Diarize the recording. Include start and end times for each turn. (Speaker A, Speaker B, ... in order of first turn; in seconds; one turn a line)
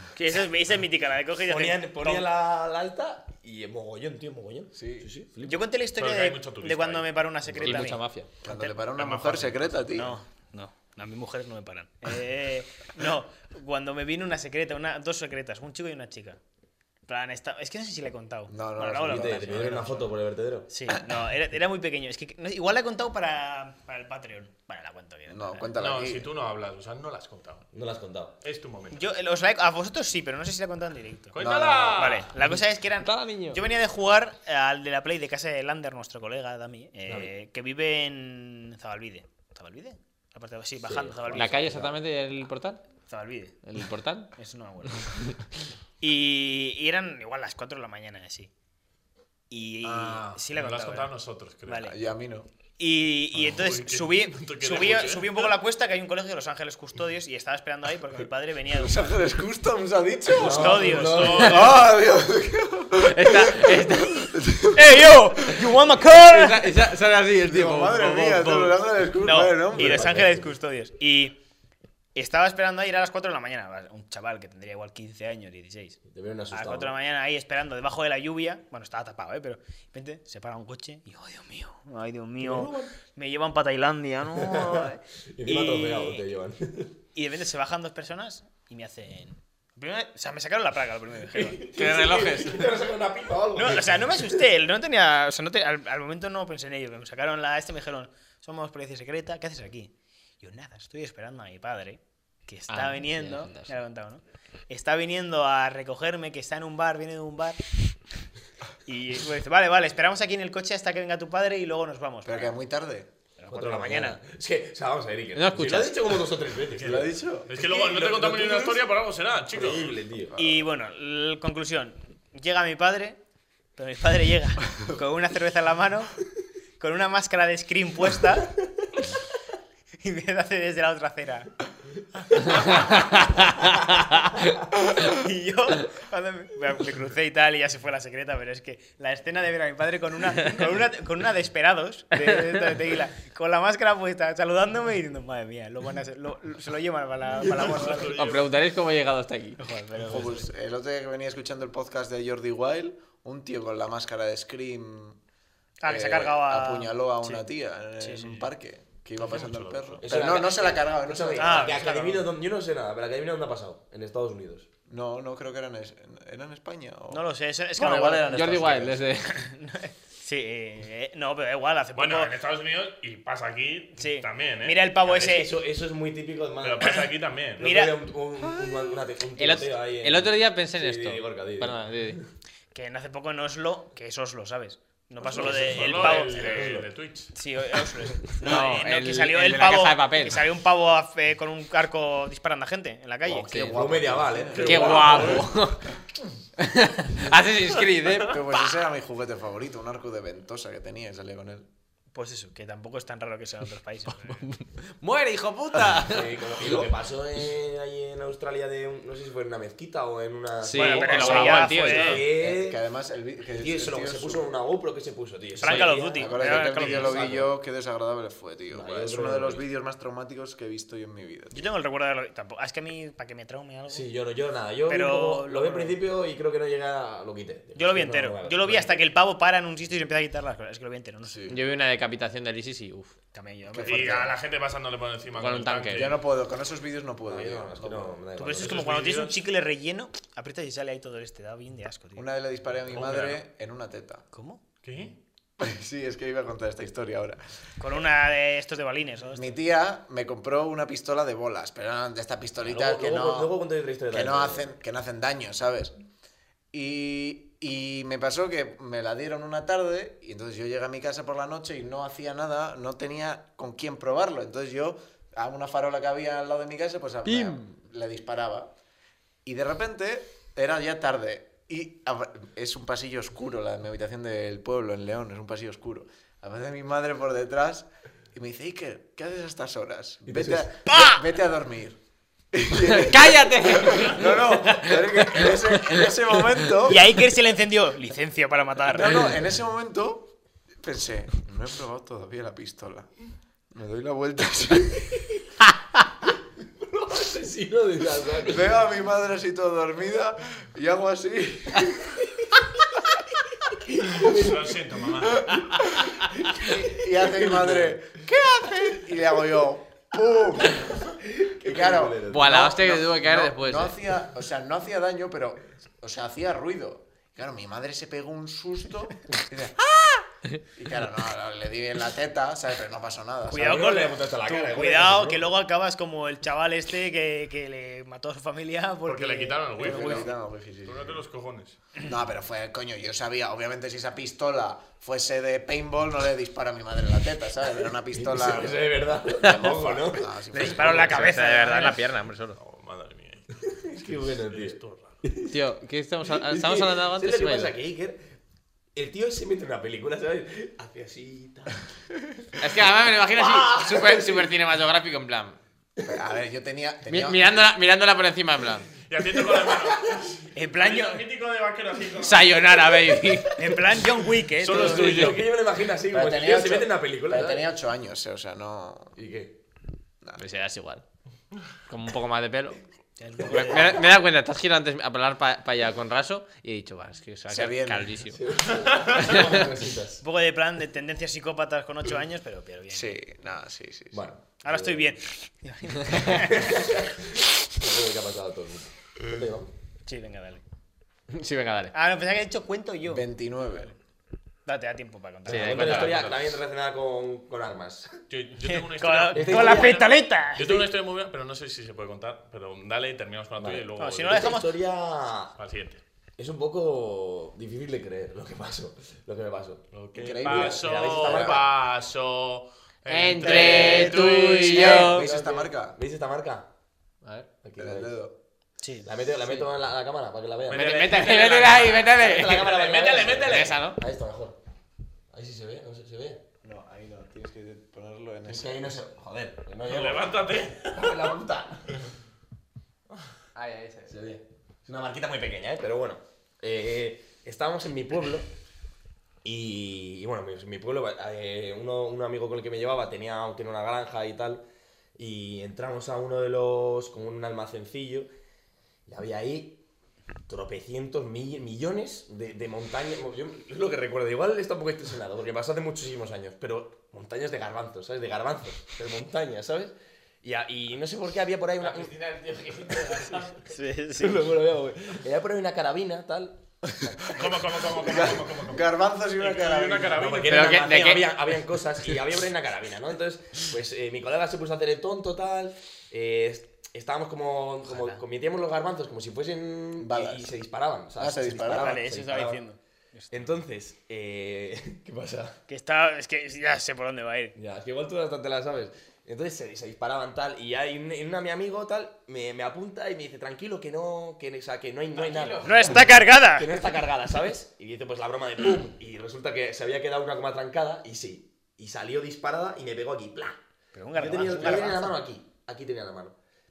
Speaker A: 0.1-2.3
Speaker B: 1.4-5.6
Speaker C: 4.7-5.1
Speaker A: 5.4-8.7
Speaker D: 6.0-7.2
Speaker E: 7.6-8.3
Speaker C: 8.4-10.2
Speaker D: 8.9-10.0
Speaker A: 9.9-16.4
Speaker A: 17.1-20.1
Speaker C: 18.5-19.8
Speaker B: 19.0-20.7
Speaker A: 20.7-25.7
Speaker C: 25.3-26.3
Speaker D: 25.8-27.7
Speaker B: 27.7-28.4
Speaker D: 28.4-29.1
Speaker A: 28.9-31.4
Speaker D: 31.3-32.3
Speaker C: 31.4-32.0
Speaker A: 31.9-41.9
Speaker E: 33.0-33.6
Speaker B: 37.1-37.3
Speaker B: 40.8-41.9
Speaker E: 41.3-42.8
Speaker A: 43.1-43.6
Speaker E: 43.6-44.3
Speaker A: 44.4-45.4
Speaker A: 46.0-48.5
Speaker A: 49.5-51.1
Speaker D: 50.2-51.9
Speaker A: 51.6-52.0
Speaker C: 51.9-52.5
Speaker A: 52.8-59.2
Speaker D: 53.3-55.5
Speaker C: 58.7-65.0
Speaker B: 60.3-61.8
Speaker A: 60.4-61.3
Speaker D: 60.9-61.9
Speaker E: 63.0-64.4
Speaker A: 64.7-66.8
Speaker E: 66.2-68.8
Speaker C: 67.4-70.2
Speaker A: 69.2-71.4
Speaker B: 69.7-70.5
Speaker A: 72.1-76.0
Speaker B: 76.1-77.0
Speaker A: 76.5-86.2
Speaker B: 82.4-82.9
Speaker B: 84.3-87.0
Speaker A: 87.1-91.7
Speaker B: 91.3-94.5
Speaker E: 91.7-92.7
Speaker A: 93.5-107.6
Speaker E: 102.7-103.8
Speaker A: 108.8-112.5
Speaker C: 112.2-113.1
Speaker A: 113.4-114.2
Speaker B: 113.5-117.1
Speaker E: 115.3-116.2
Speaker D: 116.7-120.0
Speaker C: 116.8-118.7
Speaker B: 118.0-118.7
Speaker B: 119.5-120.3
Speaker C: 120.3-120.7
Speaker A: 120.4-123.2
Speaker A: 123.8-126.1
Speaker A: 126.8-128.5
Speaker A: 130.0-131.5
Speaker A: 132.4-134.2
Speaker E: 132.5-133.7
Speaker A: 134.8-148.2
Speaker D: 147.4-148.5
Speaker E: 148.1-149.6
Speaker A: 149.6-150.5
Speaker C: 150.1-155.2
Speaker A: 155.8-157.4
Speaker C: 155.8-162.2
Speaker A: 158.0-158.5
Speaker D: 159.2-160.1
Speaker B: 160.0-164.7
Speaker A: 161.3-162.2
Speaker C: 164.9-167.2
Speaker A: 167.1-172.3
Speaker C: 167.8-168.8
Speaker E: 168.2-169.4
Speaker D: 171.9-175.3
Speaker A: 174.0-175.5
Speaker B: 175.1-177.0
Speaker D: 176.6-177.7
Speaker A: 177.6-178.0
Speaker B: 177.6-182.3
Speaker E: 179.4-182.2
Speaker A: 182.7-193.9
Speaker D: 185.3-187.3
Speaker B: 185.4-186.9
Speaker E: 188.4-190.4
Speaker B: 193.3-195.3
Speaker C: 193.4-195.4
Speaker D: 194.5-195.5
Speaker E: 194.6-195.9
Speaker E: 196.6-198.4
Speaker C: 198.2-201.7
Speaker A: 202.1-204.4
Speaker E: 204.4-206.8
Speaker B: 206.0-212.8
Speaker E: 210.6-212.2
Speaker A: 210.7-212.3
Speaker C: 212.3-214.5
Speaker B: 213.5-217.5
Speaker A: 215.6-217.3
Speaker E: 215.6-215.9
Speaker C: 216.1-221.6
Speaker B: 218.7-219.7
Speaker A: 221.5-224.1
Speaker B: 223.9-229.0
Speaker A: 224.9-225.9
Speaker A: 227.7-231.5
Speaker C: 231.2-231.6
Speaker E: 231.5-233.2
Speaker A: 233.3-234.4
Speaker C: 233.7-234.3
Speaker D: 233.8-236.2
Speaker E: 235.3-236.1
Speaker C: 235.9-238.3
Speaker B: 237.2-238.9
Speaker A: 238.3-242.2
Speaker D: 238.6-239.4
Speaker C: 242.2-244.2
Speaker D: 242.9-243.4
Speaker A: 244.3-244.6
Speaker D: 244.8-245.2
Speaker C: 245.6-247.4
Speaker A: 247.8-249.6
Speaker C: 249.3-253.5
Speaker B: 252.6-254.7
Speaker C: 254.1-255.9
Speaker C: 256.7-268.7
Speaker E: 267.3-267.7
Speaker C: 269.4-282.0
Speaker B: 280.2-280.7
Speaker A: 280.9-281.2
Speaker C: 282.5-287.1
Speaker E: 282.9-286.0
Speaker A: 286.8-289.3
Speaker C: 288.9-295.3
Speaker B: 296.8-298.8
Speaker C: 298.4-302.2
Speaker B: 303.9-304.8
Speaker D: 304.1-305.6
Speaker C: 305.4-319.9
Speaker B: 306.2-308.0
Speaker B: 311.2-312.7
Speaker E: 312.3-313.9
Speaker C: 320.7-323.8
Speaker A: 323.5-330.3
Speaker B: 323.5-325.4
Speaker D: 329.1-331.8
Speaker C: 329.7-331.2
Speaker C: 332.0-341.1
Speaker B: 338.1-341.1
Speaker A: 340.5-342.0
Speaker E: 340.6-342.6
Speaker D: 342.6-345.2
Speaker B: 343.6-345.6
Speaker E: 345.5-347.7
Speaker B: 346.2-348.3
Speaker B: 348.9-351.8
Speaker E: 352.6-355.6
Speaker B: 353.3-354.5
Speaker C: 356.0-357.7
Speaker E: 357.1-358.9
Speaker D: 359.1-363.0
Speaker A: 360.5-361.2
Speaker E: 362.2-363.6
Speaker A: 363.6-365.3
Speaker D: 364.6-365.5
Speaker B: 364.6-367.6
Speaker C: 366.1-369.1
Speaker B: 369.2-369.6
Speaker E: 370.4-371.0
Speaker E: 371.9-372.8
Speaker A: 373.2-374.1
Speaker E: 373.4-378.4
Speaker C: 377.5-378.1
Speaker B: 378.3-380.2
Speaker E: 379.2-379.6
Speaker A: 380.2-383.2
Speaker C: 382.9-384.3
Speaker B: 384.1-385.2
Speaker A: 384.6-386.8
Speaker B: 386.1-389.7
Speaker A: 390.1-390.6
Speaker E: 391.3-391.9
Speaker A: 391.9-393.9
Speaker C: 393.1-393.9
Speaker A: 394.6-396.2
Speaker B: 395.5-398.2
Speaker E: 395.5-396.1
Speaker D: 395.6-396.5
Speaker D: 398.3-404.5
Speaker A: 398.6-400.9
Speaker B: 399.3-400.0
Speaker B: 403.6-405.5
Speaker A: 404.0-404.7
Speaker D: 405.6-406.0
Speaker B: 406.4-411.6
Speaker D: 409.9-414.9
Speaker C: 410.1-411.6
Speaker E: 413.1-415.2
Speaker A: 413.4-414.9
Speaker C: 414.6-416.0
Speaker B: 414.8-416.7
Speaker B: 417.6-418.2
Speaker C: 417.8-418.3
Speaker A: 418.8-419.1
Speaker B: 419.0-421.2
Speaker D: 420.7-423.8
Speaker E: 420.7-422.7
Speaker B: 421.8-424.6
Speaker E: 423.3-424.0
Speaker B: 425.3-426.4
Speaker C: 426.6-429.0
Speaker B: 428.5-430.4
Speaker D: 429.9-431.3
Speaker B: 430.9-432.0
Speaker E: 433.5-434.2
Speaker B: 434.1-438.5
Speaker B: 439.4-444.6
Speaker B: 445.1-448.3
Speaker B: 449.1-449.8
Speaker B: 450.5-462.1
Speaker E: 461.8-463.7
Speaker A: 463.6-464.5
Speaker B: 464.2-467.2
Speaker D: 467.3-470.6
Speaker C: 468.0-470.4
Speaker B: 470.1-482.6
Speaker E: 470.4-471.3
Speaker A: 477.9-478.2
Speaker C: 480.0-480.5
Speaker C: 481.2-482.0
Speaker A: 481.7-483.5
Speaker B: 483.3-485.6
Speaker A: 485.7-487.6
Speaker B: 487.6-503.6
Speaker E: 495.1-495.8
Speaker A: 495.6-496.7
Speaker A: 503.9-505.2
Speaker B: 504.1-506.3
Speaker E: 504.3-504.8